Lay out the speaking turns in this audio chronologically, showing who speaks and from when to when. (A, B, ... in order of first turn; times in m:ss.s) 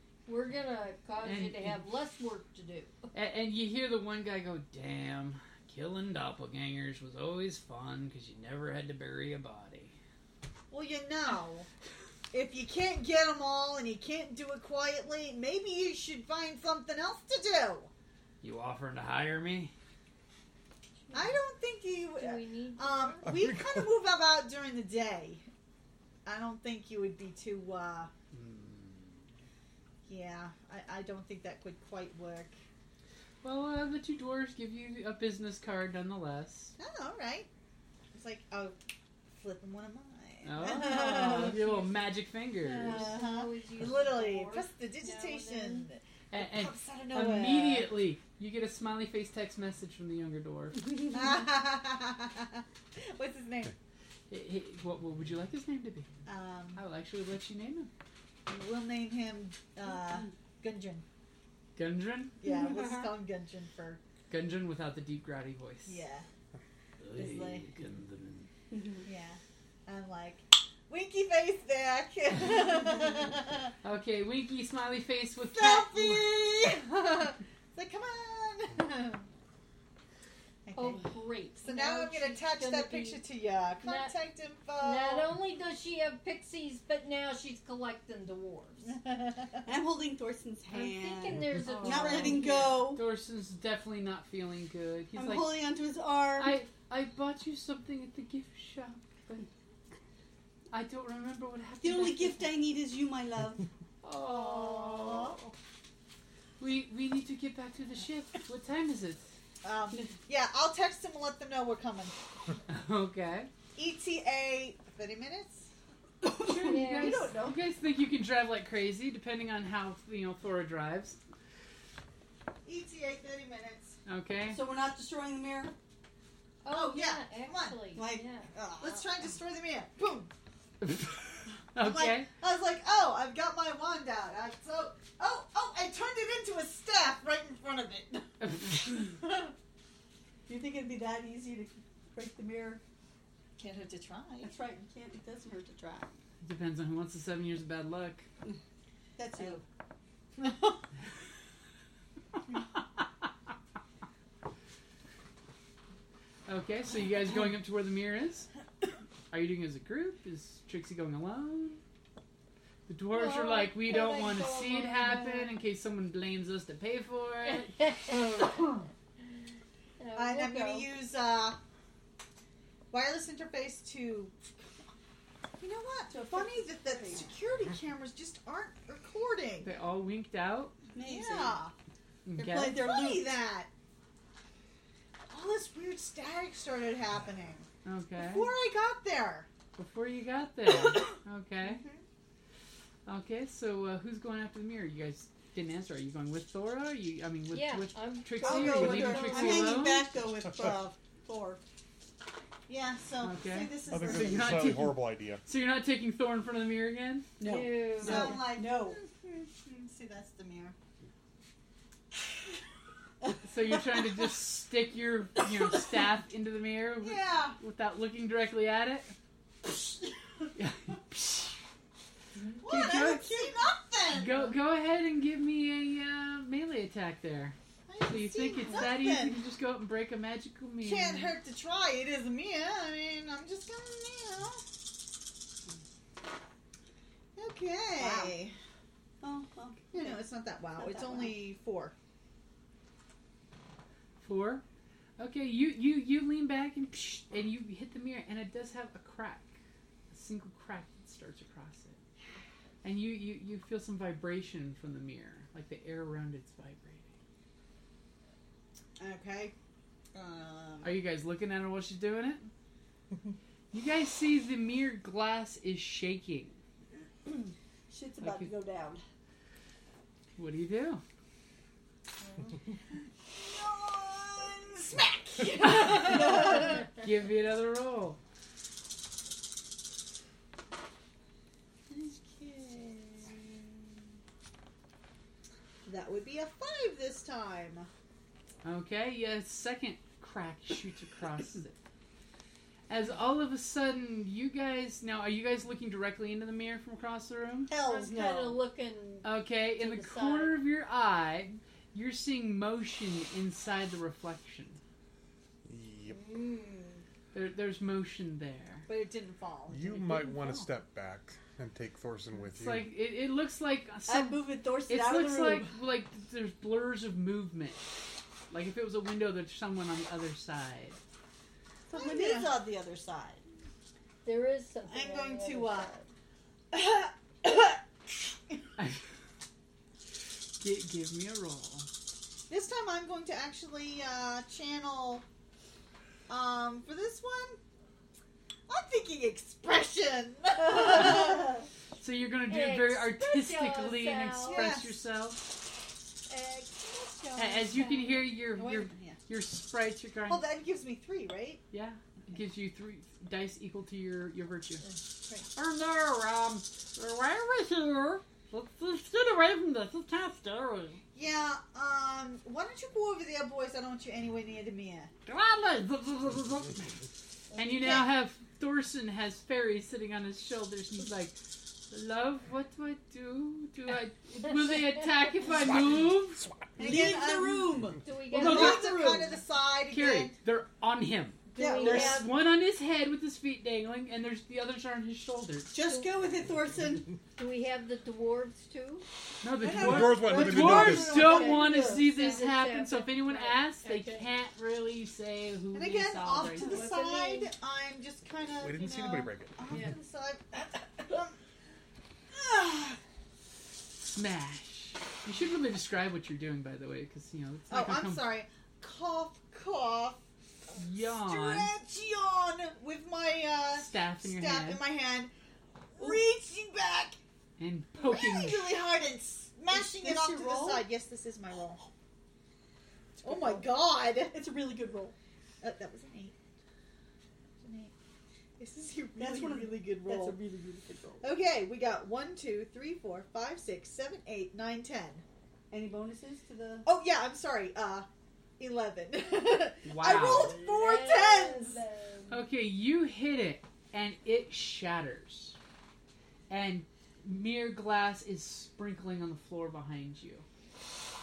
0:00.3-0:03.1 A
0:01.2-0:01.8 B
0:03.1-0:10.0 B
0:10.7-0:11.7 C
0:12.3-0:17.9 C
0:18.4-0:19.7 B
0:21.1-0:21.4 A
0:21.1-0:25.5 C
0:22.2-0:23.3 A
0:23.2-0:23.9 D
0:26.3-0:28.1 C
0:28.3-0:29.2 B
0:30.1-0:32.6 C
0:33.4-0:36.8 B
0:36.8-0:37.5 C
0:38.1-0:38.8 C
0:39.3-0:41.6 C
0:40.4-0:43.1 B
0:41.0-0:41.9 A
0:42.6-0:47.9 C
0:42.8-0:45.9 A
0:46.3-0:50.9 B
0:51.1-0:53.8 C
0:54.3-0:56.1 B
0:56.3-0:56.8 C
0:56.8-0:57.9 B
0:58.5-1:01.0 C
1:01.8-1:02.4 B
1:02.4-1:04.0 C
1:02.4-1:03.1 E
1:04.3-1:06.0 B
1:05.9-1:06.3 C
1:07.0-1:08.5 B
1:07.2-1:07.7 C
1:08.7-1:09.1 E
1:09.0-1:13.7 C
1:13.8-1:16.4 B
1:15.5-1:19.3 C
1:20.7-1:25.4 C
1:20.8-1:23.2 A
1:23.8-1:24.1 A
1:24.8-1:29.0 A
1:28.9-1:29.6 C
1:29.6-1:33.0 E
1:30.7-1:33.0 A
1:31.6-1:35.7 B
1:35.1-1:36.6 E
1:36.4-1:39.5 B
1:40.7-1:42.5 B
1:41.8-1:43.7 E
1:44.0-1:45.5 B
1:44.3-1:45.5 C
1:46.6-1:49.3 B
1:49.6-1:52.2 C
1:52.7-1:53.5 B
1:53.8-1:55.7 C
1:56.2-1:57.5 E
1:56.3-2:01.2 B
1:56.6-1:57.5 A
2:02.6-2:04.0 C
2:04.1-2:04.6 B
2:04.5-2:05.8 E
2:06.6-2:08.8 A
2:06.7-2:07.8 C
2:07.9-2:08.8 E
2:08.6-2:10.3 C
2:10.8-2:11.1 B
2:11.7-2:12.3 B
2:11.8-2:19.6 C
2:18.4-2:18.8 B
2:20.5-2:22.8 E
2:23.6-2:24.5 C
2:24.4-2:26.2 E
2:26.4-2:28.3 B
2:29.2-2:29.6 E
2:29.3-2:29.6 C
2:30.4-2:30.8 C
2:36.5-2:38.5 B
2:39.3-2:41.8 B
2:42.9-2:47.8 B
2:43.1-2:45.6 A
2:47.5-2:48.6 A
2:50.0-2:50.9 A
2:50.2-2:51.6 C
2:52.9-2:54.4 C
2:55.6-2:59.7 C
2:56.1-2:57.3 E
2:59.6-3:00.7 B
3:00.9-3:01.6 E
3:01.0-3:01.7 C
3:02.3-3:02.8 B
3:02.4-3:03.4 E
3:02.6-3:03.7 C
3:05.3-3:09.5 C
3:07.8-3:08.5 B
3:09.8-3:11.8 B
3:11.6-3:12.0 C
3:13.1-3:20.1 B
3:17.5-3:19.6 A
3:18.4-3:21.6 E
3:18.7-3:19.9 C
3:22.7-3:24.5 C
3:23.2-3:27.3 B
3:23.6-3:24.4 E
3:23.9-3:25.4 D
3:27.4-3:29.0 E
3:27.4-3:28.4 A
3:28.0-3:30.8 C
3:28.1-3:28.4 B
3:33.4-3:39.1 B
3:37.0-3:37.6 C
3:40.6-3:41.6 B
3:42.6-3:44.5 C
3:42.6-3:43.5 B
3:44.1-3:51.4 B
3:47.9-3:49.4 C
3:50.8-3:54.7 C
3:57.4-3:58.6 C
3:58.0-3:58.4 E
3:59.2-4:00.2 E
3:59.9-4:01.9 C
4:00.8-4:01.4 E
4:04.2-4:04.6 B
4:05.2-4:09.6 B
4:10.1-4:12.0 B
4:12.8-4:17.1 B
4:19.0-4:19.5 C
4:20.1-4:21.0 C
4:20.8-4:22.5 B
4:23.7-4:26.6 B
4:27.3-4:29.0 E
4:28.2-4:28.5 B
4:30.4-4:31.0 B
4:33.3-4:36.9 C
4:35.6-4:38.2 B
4:35.9-4:36.7 E
4:41.9-4:43.9 C
4:45.8-4:47.9 C
4:48.6-4:51.8 B
4:52.9-4:57.7 B
4:57.7-4:58.6 E
4:57.7-5:00.6 A
4:59.2-5:04.8 B
5:05.7-5:06.3 D
5:07.3-5:08.9 B
5:08.9-5:10.6 C
5:09.7-5:12.9 D
5:12.5-5:17.9 B
5:14.1-5:15.7 E
5:18.5-5:21.0 B
5:21.9-5:23.4 E
5:21.9-5:22.7 C
5:24.2-5:26.1 A
5:24.9-5:25.9 C
5:26.7-5:27.8 C
5:28.8-5:29.0 B
5:30.6-5:31.9 B
5:32.5-5:35.3 C
5:36.3-5:37.6 C
5:38.7-5:41.6 C
5:42.0-5:45.4 B
5:42.5-5:44.8 A
5:44.4-5:44.9 C
5:46.3-5:48.3 A
5:47.4-5:50.4 B
5:48.5-5:49.2 C
5:50.3-5:51.6 C
5:51.7-5:54.8 B
5:55.2-5:55.5 C
5:55.5-6:01.0 B
6:01.1-6:05.1 C
6:05.3-6:07.0 B
6:07.5-6:16.4 B
6:07.6-6:08.1 C
6:16.8-6:20.4 C
6:16.8-6:19.3 E
6:18.0-6:19.2 A
6:18.4-6:19.0 B
6:19.9-6:25.7 B
6:21.5-6:22.4 A
6:21.6-6:22.2 E
6:25.7-6:27.2 E
6:25.8-6:26.1 A
6:27.4-6:29.1 A
6:29.4-6:36.9 B
6:29.6-6:30.2 C
6:29.7-6:31.2 D
6:29.7-6:32.1 E
6:30.8-6:34.3 A
6:35.7-6:41.4 C
6:36.4-6:37.5 A
6:38.6-6:39.6 D
6:42.3-6:43.0 C
6:44.0-6:48.3 B
6:47.7-6:50.2 C
6:50.8-6:51.7 B
6:51.1-6:55.3 C
6:53.8-6:54.8 B
6:56.0-6:57.2 C
6:57.6-6:58.7 B
6:58.0-7:01.9 C
6:59.7-7:00.9 E
7:03.2-7:04.4 C
7:03.2-7:05.2 E
7:05.6-7:06.4 C
7:07.6-7:07.9 C
7:08.6-7:10.4 C
7:09.2-7:11.3 E
7:11.2-7:15.2 C
7:15.7-7:16.9 E
7:16.8-7:18.1 C
7:18.6-7:21.8 C
7:19.8-7:20.6 B
7:20.3-7:22.4 A
7:22.3-7:25.6 B
7:26.5-7:30.4 B